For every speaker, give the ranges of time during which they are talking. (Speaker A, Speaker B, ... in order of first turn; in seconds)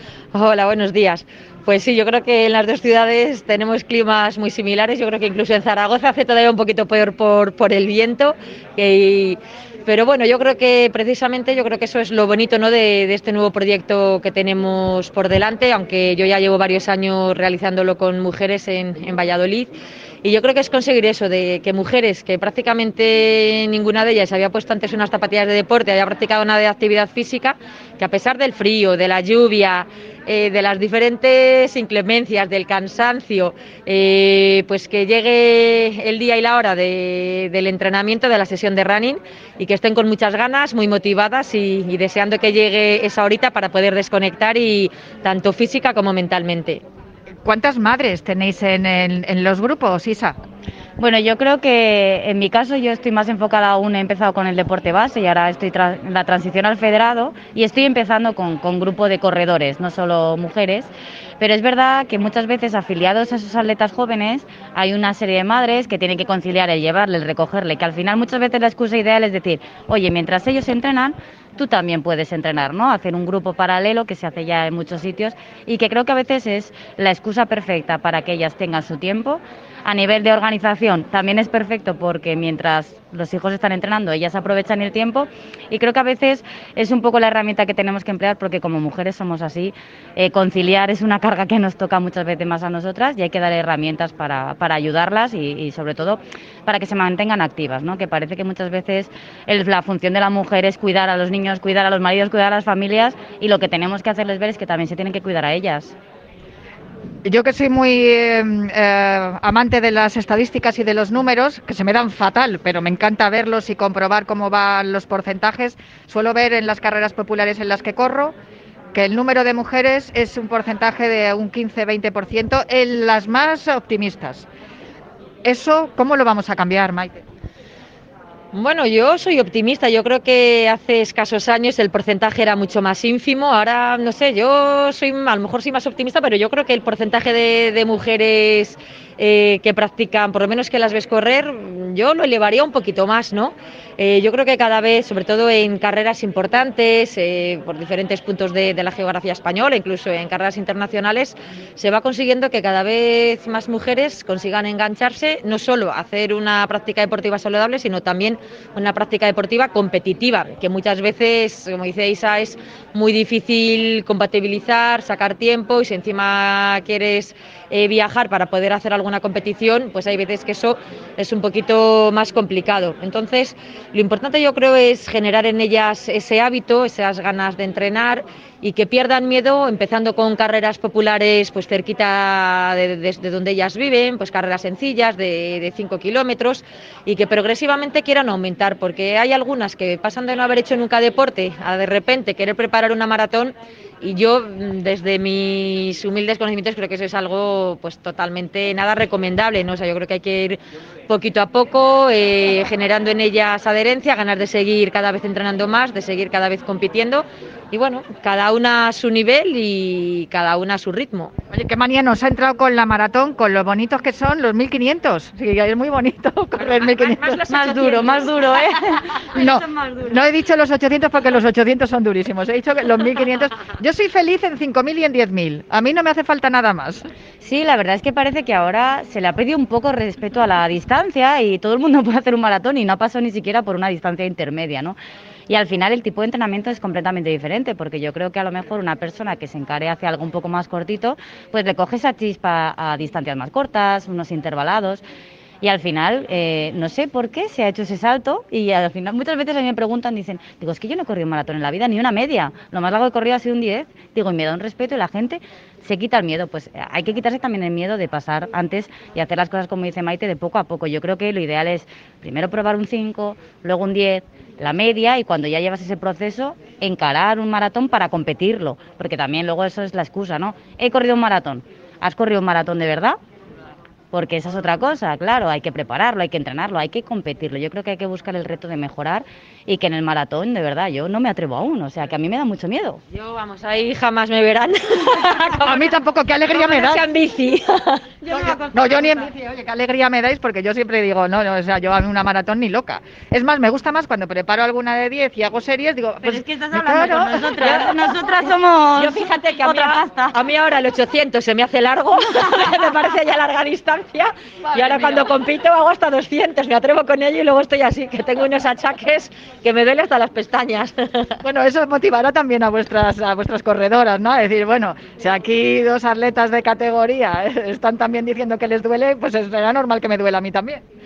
Speaker A: 0.3-19.7, 20.2-46.8, 128.5-211.3, 216.8-218.4, 283.1-285.9, 286.5-288.9, 297.6-297.9, 298.9-311.4
Speaker B: 47.4-50.4, 107.2-118.3, 118.9-124.5, 125.4-127.2, 211.5-217.4, 219.3-227.1, 285.6-287.0, 288.3-297.9, 304.7-305.3, 311.4-320.8
Speaker C: 51.0-105.9, 217.5-220.2, 227.4-234.9, 235.5-245.0, 245.6-273.2, 274.1-283.0, 296.2-300.4